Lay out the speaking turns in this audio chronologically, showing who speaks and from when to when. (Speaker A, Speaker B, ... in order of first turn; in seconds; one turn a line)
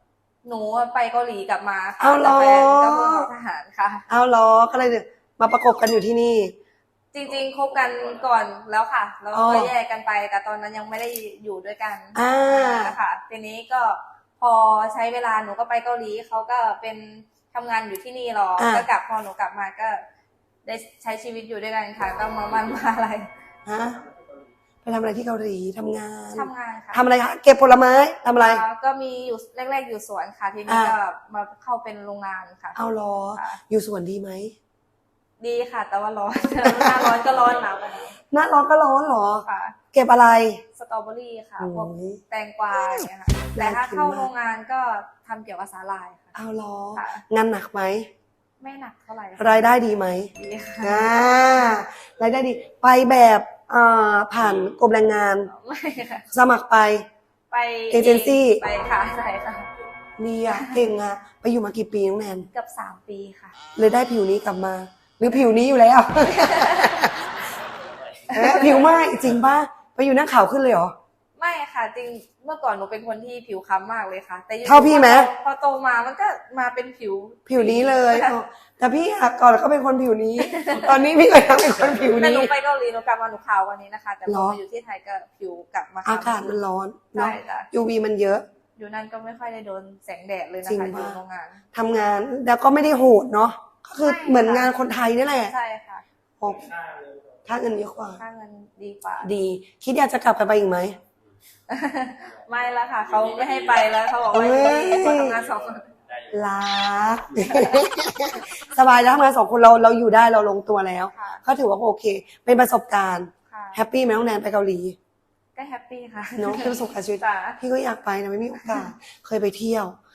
Speaker A: 0.4-4.0
Speaker B: 2.0-3.3
Speaker B: 4.1-6.5
Speaker A: 7.1-20.0
Speaker C: 7.5-8.1
Speaker B: 9.3-9.7
Speaker B: 12.1-12.9
Speaker B: 18.6-18.9
Speaker A: 20.6-23.3
Speaker B: 23.6-24.0
Speaker B: 24.8-28.6
Speaker A: 26.3-27.0
Speaker A: 28.4-32.8
Speaker B: 30.7-30.9
Speaker B: 32.8-34.5
Speaker A: 33.3-33.6
Speaker A: 35.4-38.2
Speaker B: 36.6-37.2
Speaker B: 38.3-40.6
Speaker A: 39.5-39.8
Speaker A: 40.8-46.3
Speaker B: 41.6-42.2
Speaker B: 43.5-44.3
Speaker B: 46.3-48.1
Speaker A: 47.0-47.2
Speaker A: 48.6-49.6
Speaker B: 49.4-55.5
Speaker A: 50.4-51.1
Speaker A: 55.5-56.2
Speaker B: 56.3-57.0
Speaker A: 57.5-59.7
Speaker B: 57.9-58.6
Speaker B: 60.2-62.5
Speaker A: 60.5-60.8
Speaker A: 62.5-63.5
Speaker B: 63.8-67.3
Speaker A: 66.3-67.1
Speaker B: 68.3-70.9
Speaker A: 68.3-68.7
Speaker A: 71.4-78.3
Speaker B: 74.6-75.3
Speaker B: 77.5-82.5
Speaker A: 80.5-81.0
Speaker A: 82.2-86.6
Speaker B: 84.2-84.6
Speaker B: 86.0-88.4
Speaker A: 87.1-87.7
Speaker A: 88.8-91.6
Speaker B: 90.7-91.2
Speaker B: 91.7-95.5
Speaker A: 94.0-94.7
Speaker A: 95.4-96.0
Speaker B: 96.4-96.7
Speaker B: 97.5-98.2
Speaker A: 98.2-99.3
Speaker B: 99.2-101.0
Speaker A: 101.7-105.9
Speaker C: 102.2-106.5
Speaker B: 104.3-105.4
Speaker B: 106.3-115.0
Speaker C: 107.3-107.8
Speaker A: 107.5-107.8
Speaker A: 111.1-111.4
Speaker A: 113.5-113.8
Speaker A: 115.5-117.6
Speaker B: 116.3-120.0